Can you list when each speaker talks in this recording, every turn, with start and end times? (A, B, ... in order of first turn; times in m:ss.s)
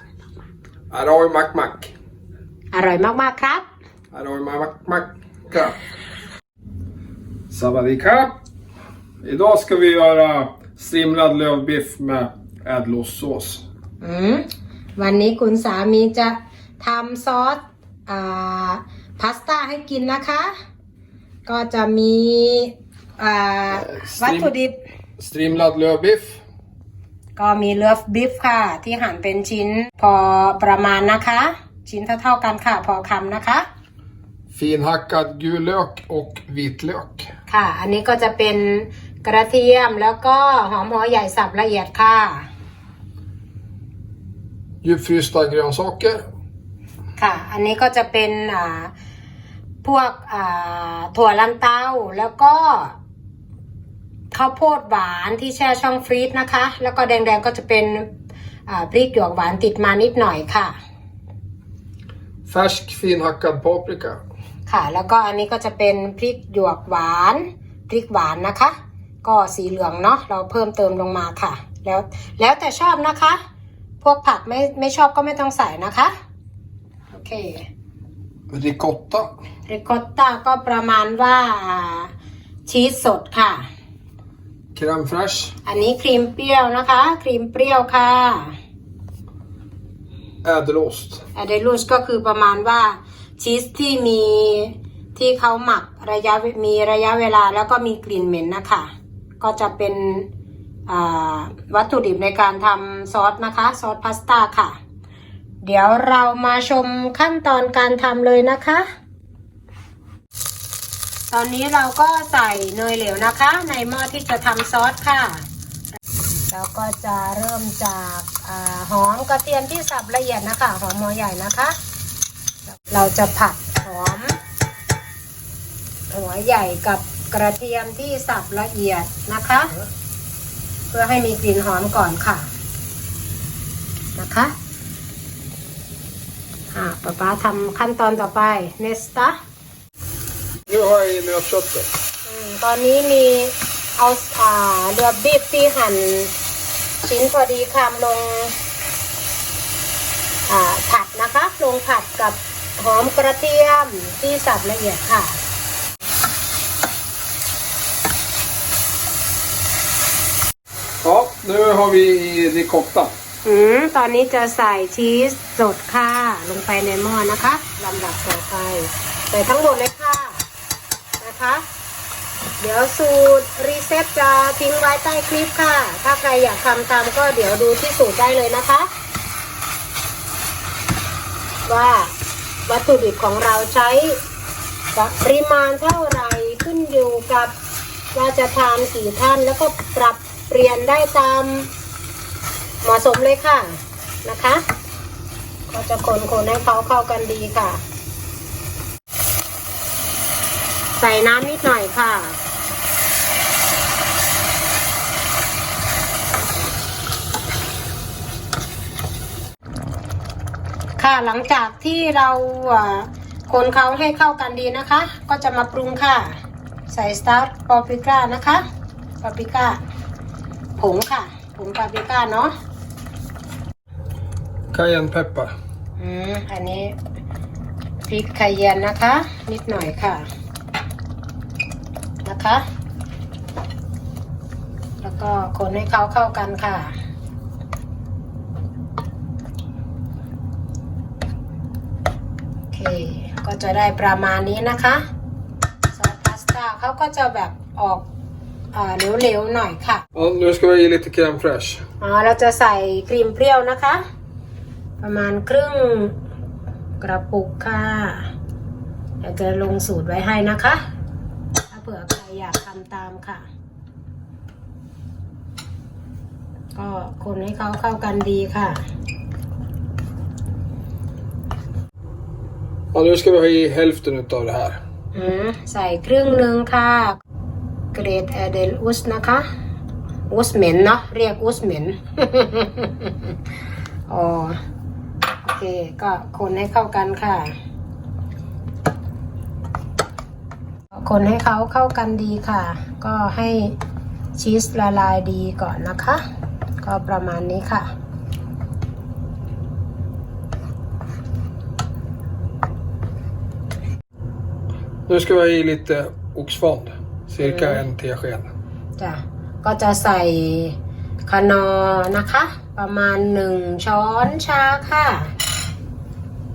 0:00.9-0:01.9 A
0:02.7-0:03.7 B
0:04.1-0:05.8 A
0:07.5-0:08.4 A
0:09.2-0:13.6 A
0:14.0-0:20.5 B
0:21.5-0:24.8 B
0:23.8-0:24.5 A
0:25.2-0:26.4 A
0:27.4-0:33.7 B
0:34.5-0:37.3 A
0:37.5-0:42.5 B
0:44.8-0:46.2 A
0:47.2-0:48.9 B
0:49.8-0:53.0 B
0:54.3-0:58.1 B
0:58.7-1:00.8 B
1:02.5-1:04.2 A
1:04.7-1:13.4 B
1:14.0-1:16.1 B
1:17.1-1:17.7 B
1:18.5-1:19.3 A
1:19.7-1:22.1 B
1:22.7-1:23.7 B
1:24.7-1:25.5 A
1:25.7-1:28.6 B
1:30.4-1:31.2 A
1:31.4-1:40.3 B
1:40.9-1:44.8 B
1:45.6-1:48.9 B
1:51.3-1:55.5 B
1:56.5-2:01.8 B
2:02.7-2:04.4 B
2:06.1-2:09.8 B
2:10.9-2:12.5 B
2:14.2-2:14.6 B
2:16.7-2:19.4 B
2:20.7-2:21.9 A
2:22.2-2:26.3 B
2:27.0-2:28.6 B
2:30.5-2:35.4 B
2:41.0-2:43.2 A
2:43.4-2:50.4 B
2:51.2-2:51.6 B
2:52.6-2:58.9 B
3:01.6-3:02.2 B
3:02.7-3:04.2 B
3:04.9-3:07.5 B
3:08.1-3:11.7 B
3:12.8-3:14.6 B
3:15.7-3:17.8 B
3:21.0-3:22.4 B
3:31.0-3:38.6 B
3:39.2-3:39.8 B
3:40.8-3:42.5 B
3:44.7-3:45.6 A
3:46.0-3:47.0 B
3:48.1-3:50.3 B
3:52.2-3:52.6 B
3:55.0-3:57.0 B
4:02.7-4:05.0 B
4:05.9-4:08.1 B
4:08.7-4:10.0 B
4:10.2-4:11.8 A
4:12.0-4:14.0 B
4:15.0-4:16.2 B
4:17.0-4:18.3 B
4:19.2-4:20.8 B
4:21.7-4:23.5 B
4:26.7-4:28.8 B
4:32.9-4:34.8 A
4:35.1-4:37.2 B
4:37.9-4:39.5 B
4:40.3-4:43.3 B
4:44.1-4:44.6 B
4:45.4-4:47.5 B
4:50.9-4:53.8 B
4:54.4-4:56.2 B
4:56.8-4:57.9 B
5:05.1-5:08.5 A
5:07.4-5:07.8 B
5:09.0-5:15.3 B